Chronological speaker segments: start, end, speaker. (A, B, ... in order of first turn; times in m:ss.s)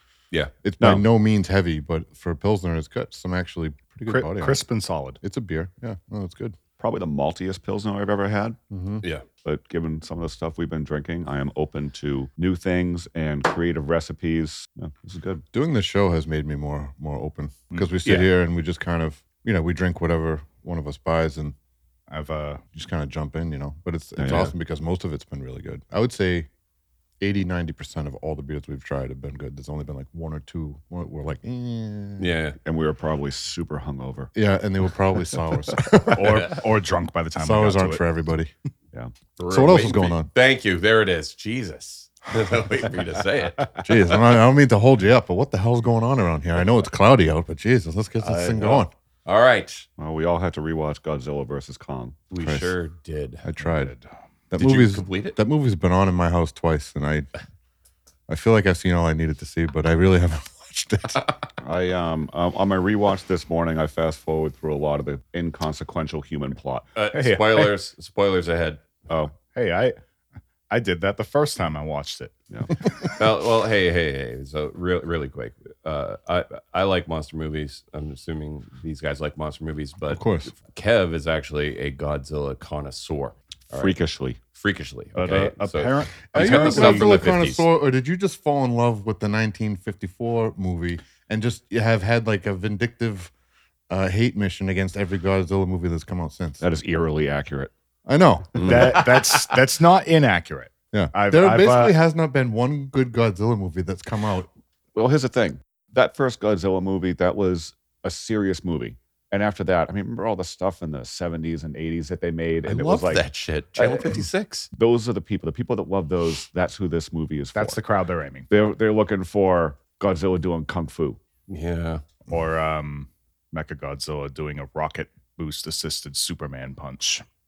0:00.6-0:04.6 A
0:04.1-0:05.2 B
0:05.2-0:06.6 A
0:06.8-0:08.6 C
0:08.7-0:09.0 A
0:09.4-0:15.4 C
0:15.5-0:21.6 A
0:22.1-0:22.6 B
0:22.7-0:26.5 A
0:24.2-0:24.5 C
0:27.2-0:32.3 A
0:32.2-0:32.6 D
0:32.6-0:34.3 C
0:34.3-0:36.6 A
0:36.1-0:38.0 B
0:37.4-0:38.5 A
0:39.4-0:43.8 D
0:39.5-0:40.3 A
0:43.8-0:48.9 A
0:48.2-0:49.9 D
0:50.0-0:52.6 C
0:52.3-0:53.4 D
0:53.4-0:53.9 A
0:53.7-0:54.1 B
0:54.5-0:57.3 A
0:54.6-0:55.4 D
0:58.3-1:01.3 A
1:01.6-1:06.9 C
1:06.9-1:08.8 D
1:07.1-1:07.7 B
1:09.1-1:09.3 C
1:09.5-1:10.0 B
1:10.7-1:12.3 B
1:13.2-1:23.9 D
1:20.1-1:20.5 A
1:23.7-1:24.4 C
1:24.5-1:27.6 D
1:25.1-1:27.1 B
1:26.3-1:33.3 A
1:33.9-1:36.6 A
1:36.6-1:37.7 C
1:38.0-1:39.1 A
1:38.6-1:39.3 D
1:38.6-1:42.0 B
1:40.9-1:44.5 A
1:44.9-1:53.2 C
1:52.6-1:54.7 D
1:53.8-1:57.8 C
1:57.5-1:58.5 B
1:58.5-2:01.2 C
2:01.5-2:02.0 D
2:02.3-2:07.2 B